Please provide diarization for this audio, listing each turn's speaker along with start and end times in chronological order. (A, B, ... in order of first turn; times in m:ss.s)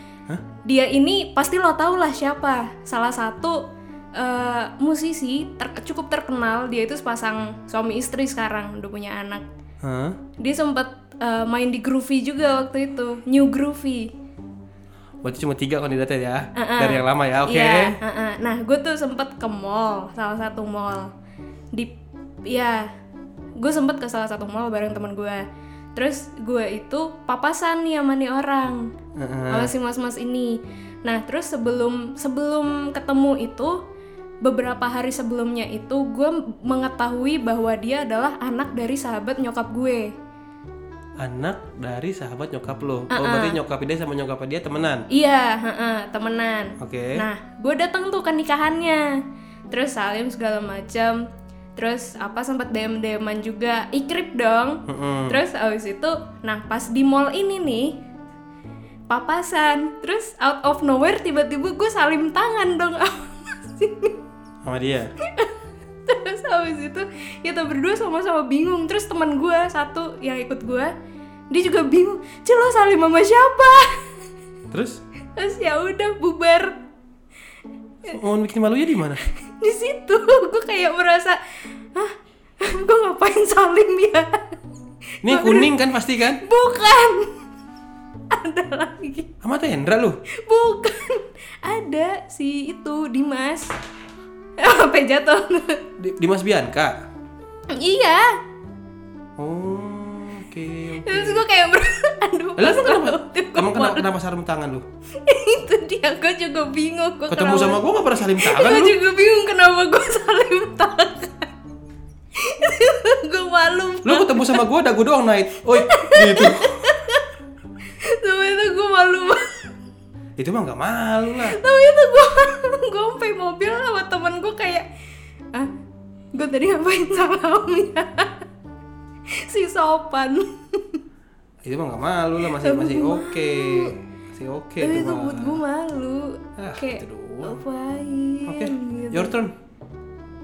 0:00.6-0:03.6 A
0:04.2-0:09.4 A
0:09.8-0:10.2 B
0:10.4-0:14.1 A
0:15.2-0:18.0 B
0:16.6-0:21.1 A
0:22.4-0:22.9 A
0:23.6-0:25.4 A
0:25.9-0:28.9 A
0:29.2-0:29.7 B
0:29.5-0:33.8 A
0:34.4-0:40.1 A
0:41.2-0:45.0 B
0:43.1-0:43.6 A
0:45.1-0:49.2 A
0:46.8-0:47.2 B
0:49.7-0:51.2 A
0:51.8-0:58.0 A
0:54.9-0:55.4 B
0:59.1-1:04.2 A
1:04.6-1:05.1 B
1:05.2-1:05.5 A
1:06.1-1:10.9 A
1:11.5-1:14.1 A
1:14.7-1:15.0 B
1:15.4-1:16.8 A
1:18.1-1:19.2 B
1:19.5-1:21.4 A
1:21.9-1:24.6 A
1:25.2-1:26.4 B
1:25.2-1:25.7 A
1:26.4-1:27.3 A
1:28.3-1:29.3 A
1:29.4-1:30.2 B
1:30.4-1:33.7 A
1:34.6-1:35.8 A
1:36.0-1:37.0 B
1:37.7-1:38.4 A
1:39.4-1:41.4 B
1:41.0-1:44.0 A
1:42.6-1:44.8 B
1:45.2-1:47.8 A
1:47.3-1:48.9 B
1:48.4-1:51.5 A
1:52.3-1:54.6 A
1:54.0-1:56.7 B
1:55.9-1:57.2 A
1:57.9-1:59.6 A
2:00.4-2:01.6 B
2:01.4-2:04.8 A
2:06.3-2:08.4 A
2:09.3-2:11.0 A
2:11.6-2:15.6 B
2:12.6-2:13.9 A
2:14.8-2:19.3 A
2:16.6-2:17.6 B
2:18.4-2:19.5 B